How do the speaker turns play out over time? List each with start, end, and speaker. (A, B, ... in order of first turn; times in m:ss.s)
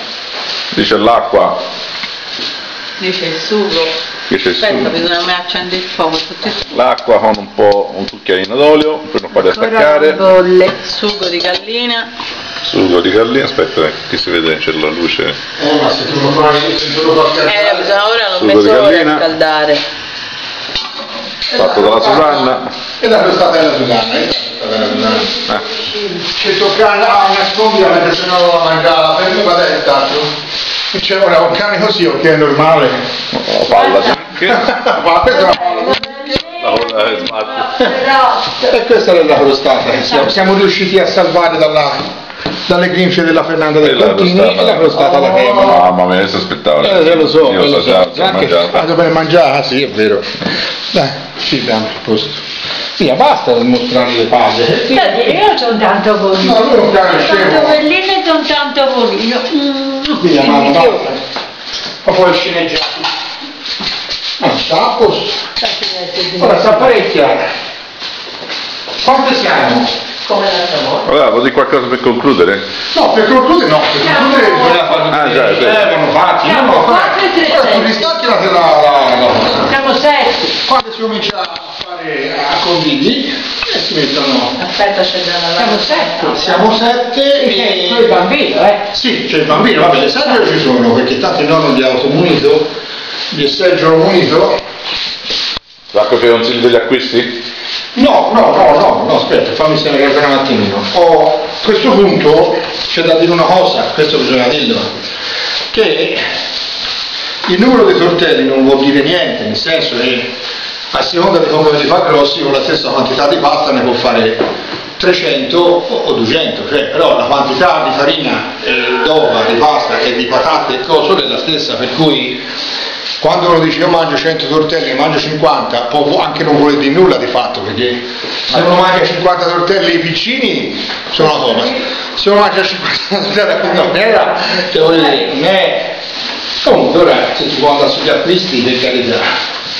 0:00.7-0:01.6 A
0:03.0-0:03.9 B
0:04.3-0:04.9 A
0:04.6-0:06.6 B
0:06.6-0:10.2 A
0:09.5-0:12.1 B
0:12.6-0:15.4 A
0:15.6-0:18.0 C
0:17.4-0:19.8 B
0:18.3-0:19.2 A
0:21.5-0:25.3 C
0:21.6-0:22.6 A
0:25.0-0:26.2 D
0:26.3-0:30.3 C
0:30.9-0:33.0 C
0:33.3-0:34.6 A
0:33.7-0:34.2 D
0:34.4-0:36.4 C
0:35.3-0:38.7 D
0:36.5-0:37.9 A
0:38.7-0:42.0 C
0:40.0-0:40.3 D
0:42.7-0:45.9 C
0:43.8-0:48.8 A
0:46.8-0:50.2 C
0:50.9-0:52.4 C
0:53.0-0:55.4 C
0:54.9-1:01.0 D
0:56.4-0:57.8 C
1:00.2-1:01.2 C
1:02.0-1:03.1 C
1:04.4-1:05.3 C
1:05.6-1:06.9 D
1:06.4-1:07.4 C
1:09.0-1:09.9 C
1:10.2-1:11.0 B
1:11.0-1:12.6 A
1:12.9-1:19.7 C
1:14.0-1:14.9 D
1:15.1-1:15.8 A
1:16.4-1:18.2 D
1:19.6-1:20.5 D
1:20.6-1:24.6 C
1:24.6-1:26.6 B
1:25.6-1:26.3 D
1:26.2-1:28.1 C
1:27.4-1:28.8 D
1:28.9-1:32.7 C
1:33.3-1:34.5 C
1:35.9-1:37.4 A
1:38.0-1:44.8 C
1:45.7-1:46.2 C
1:47.4-1:50.3 C
1:50.9-1:54.4 C
1:55.0-2:02.4 C
2:03.2-2:15.9 C
2:16.6-2:19.2 C